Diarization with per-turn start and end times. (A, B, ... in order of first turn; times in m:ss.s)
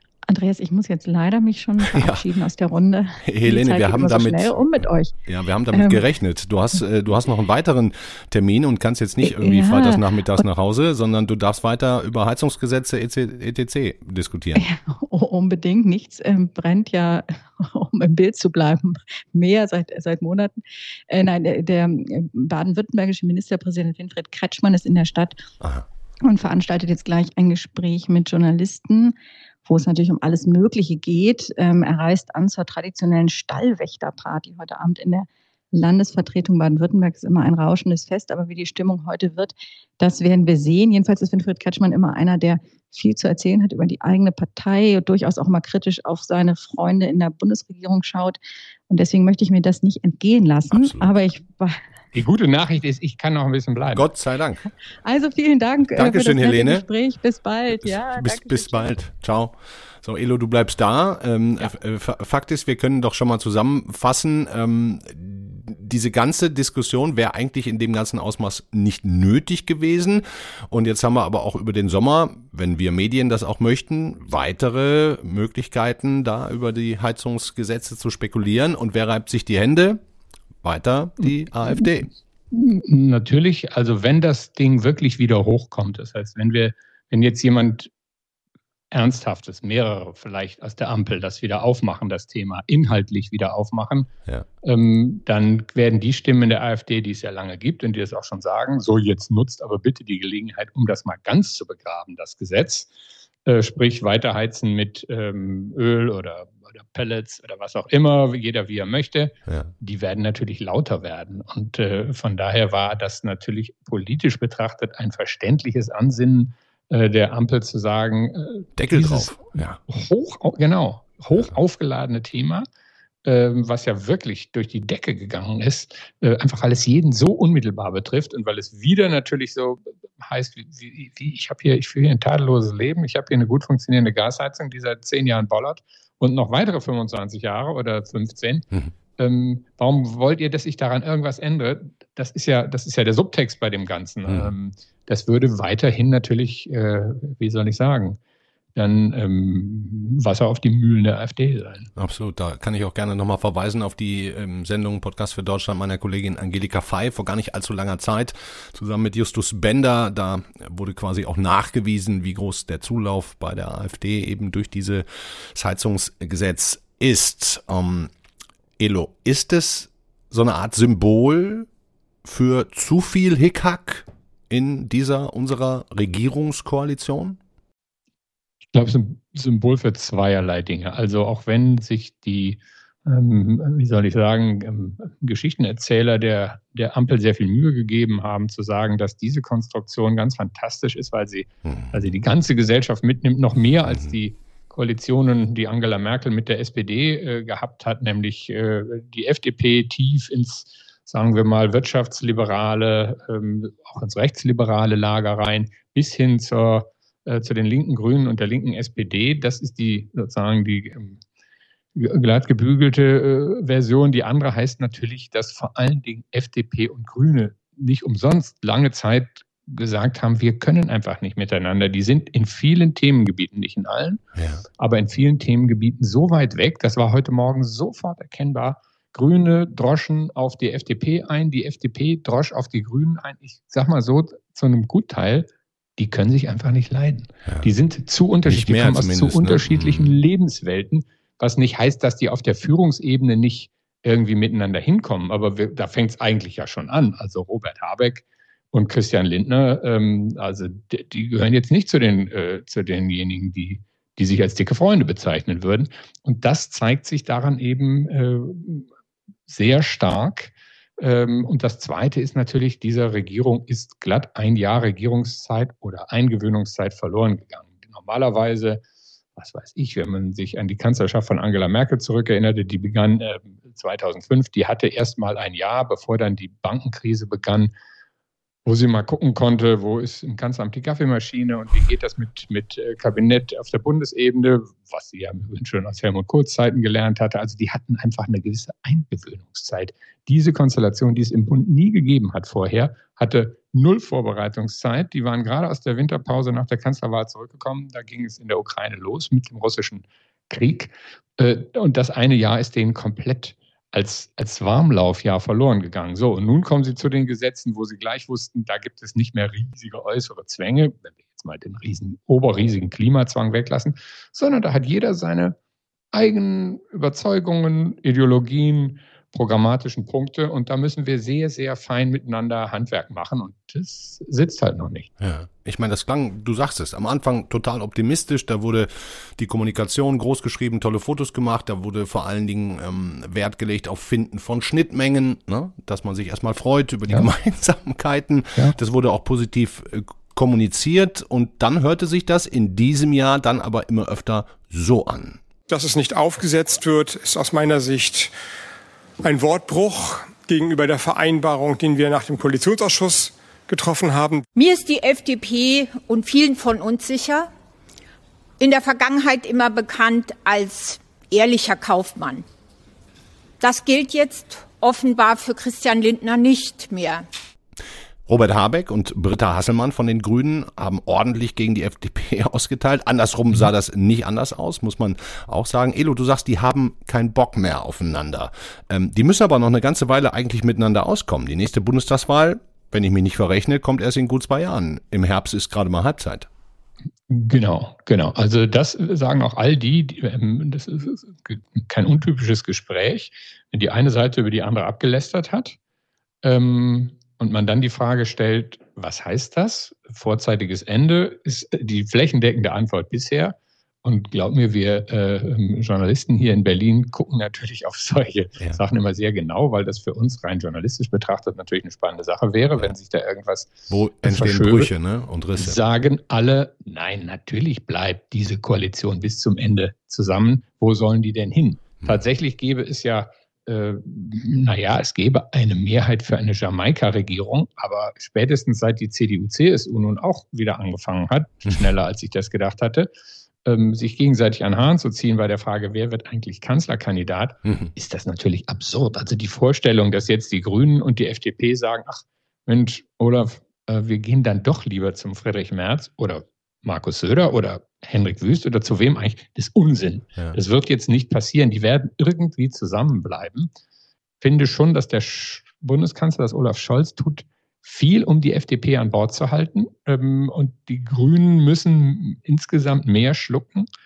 0:00.3-0:05.1 A
0:01.8-0:02.2 B
0:03.2-0:14.7 B
0:05.7-0:06.0 A
0:09.2-0:10.0 A
0:14.6-0:25.4 A
0:25.6-0:25.9 B
0:26.2-0:29.2 A
0:29.7-0:51.8 A
0:50.7-0:51.1 B
0:52.1-0:54.1 C
0:53.9-0:54.7 B
0:55.0-0:58.9 A
0:56.0-0:56.8 B
0:57.7-1:20.0 B
1:20.6-1:22.1 B
1:22.5-1:27.9 C
1:28.9-1:34.1 C
1:34.6-1:42.9 C
1:43.5-2:02.7 C
1:58.8-1:59.8 B
2:03.2-2:18.7 C
2:19.2-2:28.2 C
2:24.3-2:24.5 B
2:28.8-2:31.9 C
2:32.0-2:48.1 B
2:48.8-2:51.7 B
2:52.2-2:57.4 B
2:58.7-3:31.2 C
3:32.0-3:44.2 C
3:44.4-3:44.6 B
3:44.8-4:18.9 C
3:58.5-4:00.2 B
4:19.5-4:28.8 C
4:29.4-4:37.7 C
4:38.7-5:15.6 C
5:16.1-5:25.1 C
5:25.2-5:45.4 B
5:45.7-5:48.3 D
5:49.2-5:54.4 D
5:54.6-5:57.5 E
5:58.6-6:02.4 E
6:03.6-6:07.2 E
6:08.3-6:26.5 B
6:27.3-6:35.8 C
6:36.4-6:54.9 C
6:53.9-6:55.8 B
6:55.6-7:13.1 C
7:13.6-7:33.7 C
7:34.4-7:43.9 C